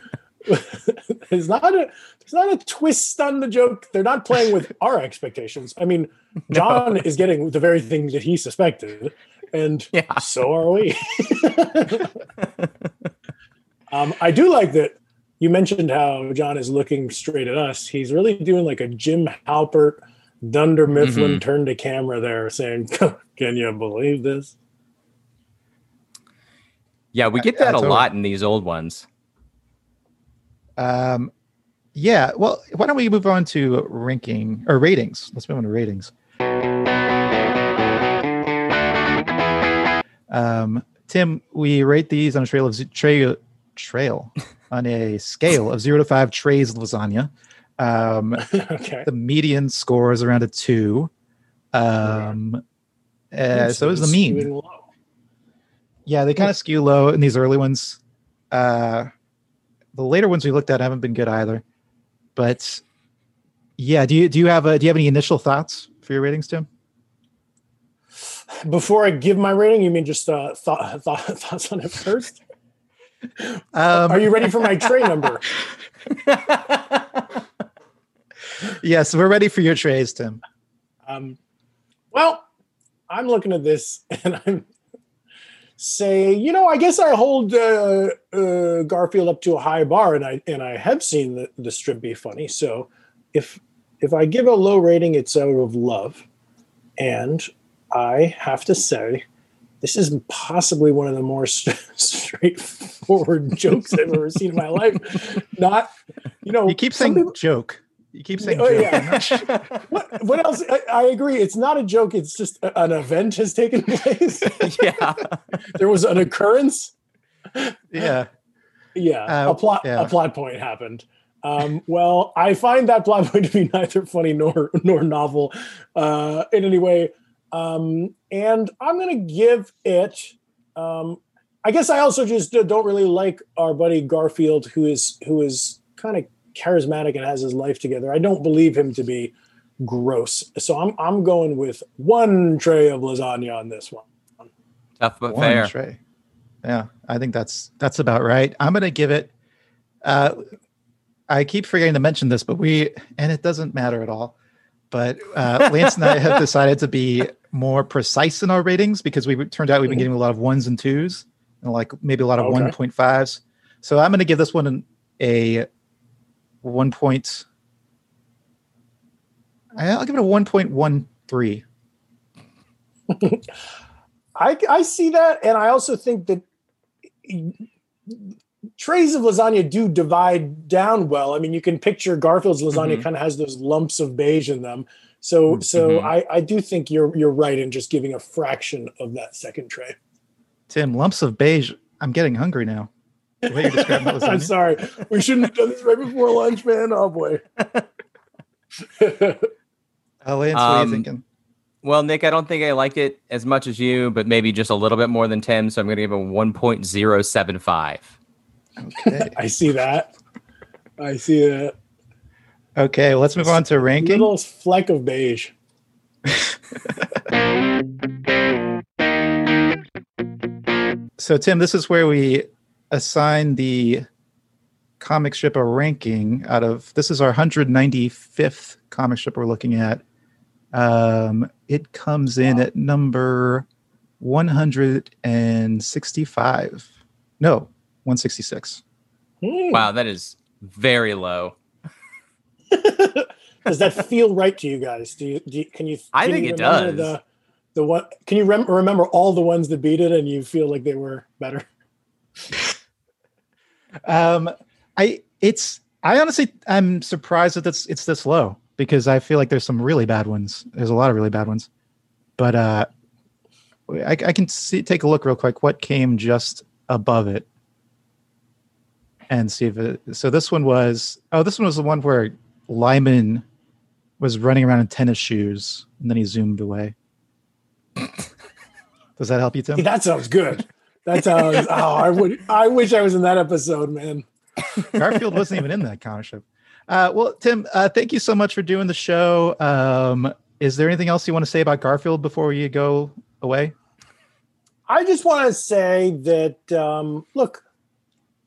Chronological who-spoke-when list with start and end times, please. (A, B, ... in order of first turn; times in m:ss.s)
0:00.4-0:12.1 A
0:06.5-0:06.9 B
0:09.9-0:10.2 B
0:13.9-0:24.5 A
0:21.0-0:21.4 B
0:27.1-0:29.0 B
0:27.4-0:28.1 C
0:30.8-0:31.3 C
0:31.9-0:36.1 C
0:40.3-0:48.4 C
0:48.4-0:49.1 A
0:49.0-0:51.1 C
0:51.7-0:52.6 C
0:52.0-0:52.4 A
0:53.3-0:54.5 C
0:53.5-0:54.8 A
0:56.1-0:58.0 C
0:58.5-0:59.1 C
0:59.9-1:01.6 C
1:02.4-1:02.8 C
1:03.8-1:06.7 C
1:08.6-1:12.4 A
1:13.4-1:15.5 A
1:13.7-1:14.5 C
1:18.8-1:20.4 C
1:21.1-1:21.4 A
1:22.1-1:22.4 A
1:23.1-1:24.7 A
1:25.8-1:36.2 A
1:37.0-1:39.2 A
1:39.8-1:45.9 A
1:46.4-1:47.3 A
1:46.7-1:49.5 C
1:48.4-1:54.8 A
1:49.1-1:49.8 B
1:54.6-1:55.4 B
1:55.7-1:56.9 A
1:57.5-1:57.8 A
1:57.9-1:58.3 C
1:58.9-2:24.5 A
1:59.3-2:00.1 C
2:25.0-2:25.7 B
2:25.3-2:26.0 C
2:26.6-2:29.3 C
2:30.0-2:30.4 C
2:31.3-2:34.4 C
2:34.9-2:45.7 C
2:42.4-2:42.7 A
2:46.6-2:47.4 C
2:49.7-2:51.6 C
2:53.1-2:53.4 A
2:54.4-2:56.4 A
2:57.2-3:09.9 A
3:02.7-3:03.0 B
3:05.7-3:06.1 B
3:10.7-3:12.9 C
3:13.4-3:14.5 C
3:13.5-3:17.4 A
3:19.0-3:19.5 A
3:20.2-3:21.2 C
3:20.5-3:21.0 B
3:21.8-3:28.1 B
3:28.8-3:29.3 C
3:29.0-3:30.1 A
3:31.0-3:31.7 A
3:32.8-3:34.3 C
3:33.4-3:35.5 A
3:41.2-3:44.0 C
3:45.0-3:50.0 C
3:50.7-3:53.6 C
3:54.2-3:56.9 C
3:57.4-3:58.8 C
3:59.4-3:59.8 A
3:59.7-4:01.5 B
4:02.7-4:07.2 A
4:06.1-4:07.1 B
4:07.7-4:11.6 A
4:14.0-4:21.7 C
4:22.4-4:22.9 C
4:23.9-4:27.5 C
4:29.3-4:33.4 C
4:34.2-4:36.9 C
4:39.2-4:39.9 C
4:39.8-4:44.2 A
4:44.9-4:53.7 C
4:54.9-4:57.6 A